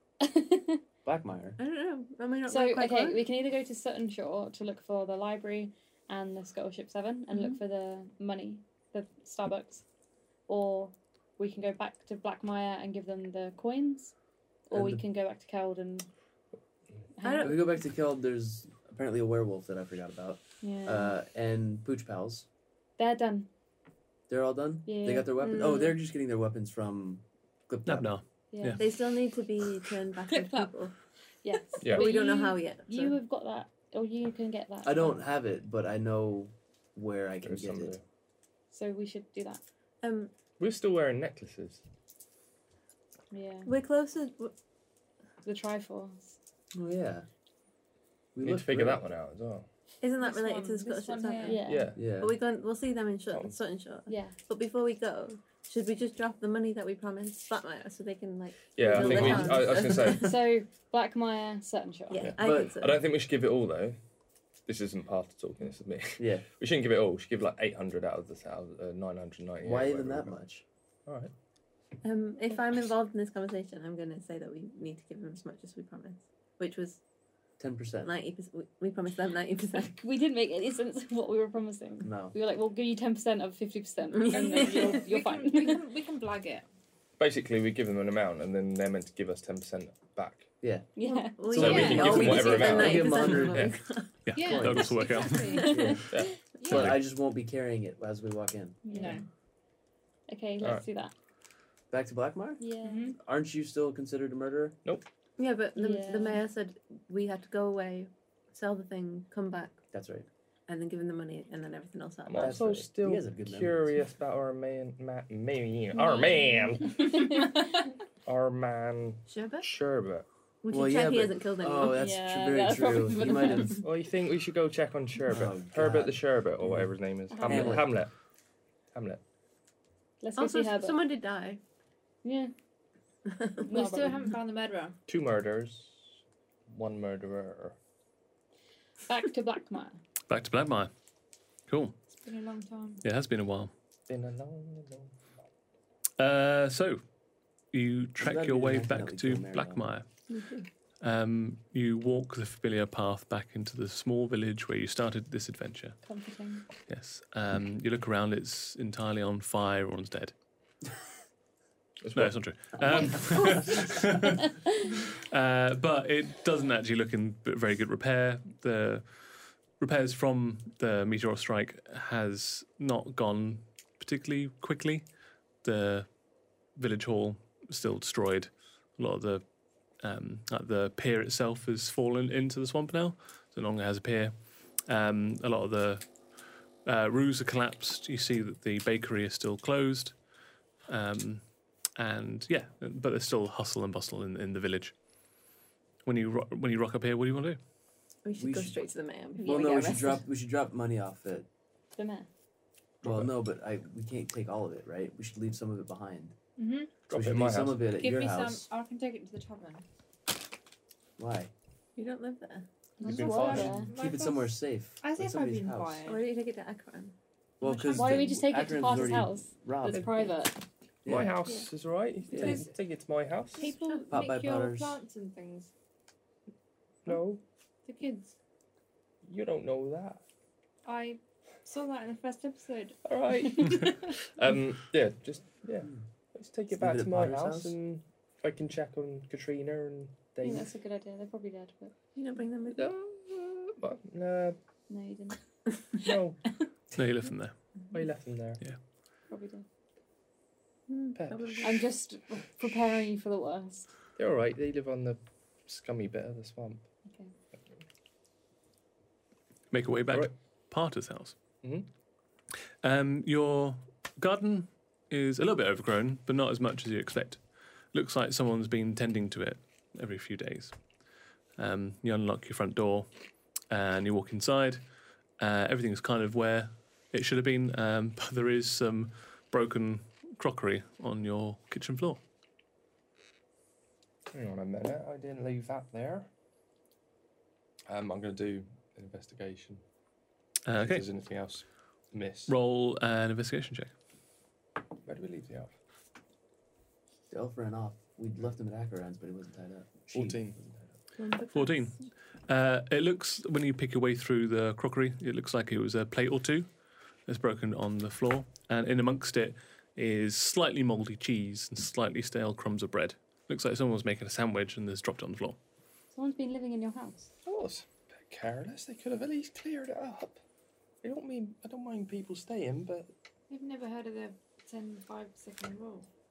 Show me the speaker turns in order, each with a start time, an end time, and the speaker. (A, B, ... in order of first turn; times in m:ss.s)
0:00.2-0:00.8 A
0:01.0-0:01.6 B
0:01.6-0:03.2 C
0:02.5-0:09.8 A
0:10.5-0:14.1 A
0:14.7-0:16.1 A
0:14.7-0:15.0 B
0:17.2-0:17.6 A
0:17.2-0:17.6 C
0:17.4-0:22.5 B
0:20.6-0:21.2 A
0:23.0-0:23.5 A
0:24.3-0:28.1 B
0:24.8-0:25.7 A
0:25.4-0:25.9 C
0:27.8-0:28.8 D
0:28.5-0:28.9 A
0:28.8-0:30.9 C
0:30.4-0:30.7 E
0:31.4-0:35.2 A
0:31.8-0:32.1 F
0:31.8-0:33.2 C
0:34.8-0:38.0 B
0:37.4-0:38.0 F
0:38.7-0:39.6 A
0:40.0-0:40.3 C
0:40.6-0:41.8 F
0:43.3-0:43.7 A
0:43.6-0:44.5 C
0:45.4-0:46.3 A
0:46.7-0:47.3 B
0:48.3-0:49.0 B
0:48.4-0:49.6 F
0:50.0-1:00.4 C
0:50.2-0:51.7 E
0:51.4-0:52.0 A
0:51.6-0:52.0 F
0:52.0-0:52.3 B
0:53.3-0:53.6 F
0:54.1-0:54.4 A
0:58.8-1:00.4 F
0:58.8-0:59.8 B
0:59.9-1:02.3 A
1:02.1-1:03.0 C
1:02.2-1:04.0 F
1:02.4-1:02.8 B
1:04.6-1:10.4 F
1:06.2-1:06.5 B
1:09.6-1:10.6 B
1:11.0-1:11.3 F
1:12.0-1:17.0 C
1:17.6-1:18.1 B
1:18.0-1:20.0 C
1:19.8-1:25.8 A
1:22.0-1:22.4 B
1:24.1-1:25.0 C
1:24.2-1:26.6 E
1:27.2-1:30.5 F
1:30.6-1:30.9 B
1:31.0-1:31.6 A
1:31.0-1:34.2 C
1:31.5-1:33.7 B
1:31.5-1:33.8 F
1:31.6-1:32.6 E
1:34.2-1:35.7 D
1:34.3-1:35.8 E
1:34.4-1:36.0 B
1:36.1-1:37.0 F
1:36.6-1:36.9 E
1:36.6-1:38.8 B
1:36.7-1:37.0 D
1:38.8-1:39.2 A
1:38.9-1:39.2 E
1:40.3-1:41.1 A
1:40.6-1:40.8 F
1:41.9-1:42.6 B
1:42.6-1:43.1 A
1:42.8-1:43.2 E
1:43.2-1:44.8 B
1:45.4-1:49.8 C
1:45.8-1:46.4 A
1:49.9-1:50.3 B
1:50.7-1:52.7 C
1:52.2-1:57.4 F
1:52.4-1:54.0 B
1:56.8-1:57.8 A
1:58.2-2:00.2 F
1:59.3-1:59.7 C
2:00.6-2:02.0 C
2:00.7-2:03.8 B
2:01.8-2:03.8 A
2:03.8-2:08.1 F
2:05.3-2:07.9 B
2:07.3-2:07.8 A
2:08.9-2:09.2 F
2:10.2-2:11.0 A
2:10.4-2:11.6 C
2:12.2-2:12.5 A
2:13.3-2:13.7 C
2:13.7-2:14.3 A
2:13.7-2:15.0 E
2:15.1-2:16.1 F
2:16.7-2:17.8 F
2:19.1-2:20.0 A
2:20.3-2:20.9 D
2:21.7-2:21.9 D
2:22.2-2:23.0 E
2:23.0-2:23.7 D
2:24.1-2:25.1 F
2:26.2-2:27.0 D
2:27.7-2:30.0 D
2:28.2-2:29.9 B
2:30.3-2:30.7 C
2:31.0-2:36.0 D
2:36.0-2:36.7 A
2:36.8-2:40.3 D
2:42.0-2:42.4 F
2:42.1-2:44.5 D
2:44.7-2:44.9 A
2:45.0-2:55.1 D
2:55.6-2:56.1 D
2:56.7-2:59.4 D
3:00.0-3:10.2 D
3:10.9-3:14.9 D
3:16.0-3:17.6 D
3:18.2-3:20.2 C
3:18.3-3:18.8 B
3:19.4-3:21.5 B
3:22.0-3:22.3 A
3:23.0-3:26.4 B
3:23.0-3:23.3 F
3:26.6-3:26.9 E
3:27.1-3:27.9 F
3:27.1-3:28.7 B
3:28.0-3:29.8 E
3:31.2-3:31.5 B
3:32.0-3:32.7 C
3:33.0-3:33.9 A
3:33.0-3:36.1 B
3:33.0-3:33.8 F
3:33.1-3:36.2 E
3:36.0-3:37.2 C
3:37.6-3:40.3 B
3:37.6-3:38.3 E
3:37.9-3:40.6 A
3:41.0-3:41.4 B
3:41.0-3:43.7 F
3:42.3-3:42.6 B
3:42.3-3:42.8 E
3:43.6-3:45.7 E
3:43.6-3:44.1 C
3:44.1-3:45.0 B
3:47.0-3:47.4 F
3:47.8-3:48.3 E
3:49.2-3:50.2 F
3:50.8-3:54.0 E
3:53.0-4:00.7 F
3:56.7-3:57.7 B
4:00.4-4:01.9 A
4:02.1-4:02.9 C
4:02.7-4:04.6 F
4:04.9-4:05.4 A
4:06.0-4:06.4 F
4:07.0-4:07.6 D
4:07.9-4:08.6 F
4:09.3-4:09.6 A
4:10.9-4:11.8 C
4:11.1-4:11.8 F
4:11.6-4:13.9 A
4:14.2-4:16.8 F
4:17.1-4:17.3 A
4:19.7-4:21.3 D
4:22.8-4:27.4 D
4:27.9-4:30.8 D
4:31.6-4:33.1 D
4:33.7-4:34.8 D
4:35.4-4:42.2 D
4:44.3-4:46.3 F
4:47.9-4:49.8 F
4:50.6-4:51.0 D
4:50.7-4:52.5 F
4:52.5-4:53.9 D
4:55.0-4:55.7 F
4:57.3-5:00.6 B
5:00.1-5:00.9 F
5:01.2-5:02.0 C
5:01.5-5:06.7 D
5:07.2-5:15.6 D
5:16.1-5:17.3 A
5:17.4-5:20.4 F
5:21.0-5:23.1 F
5:23.5-5:26.1 E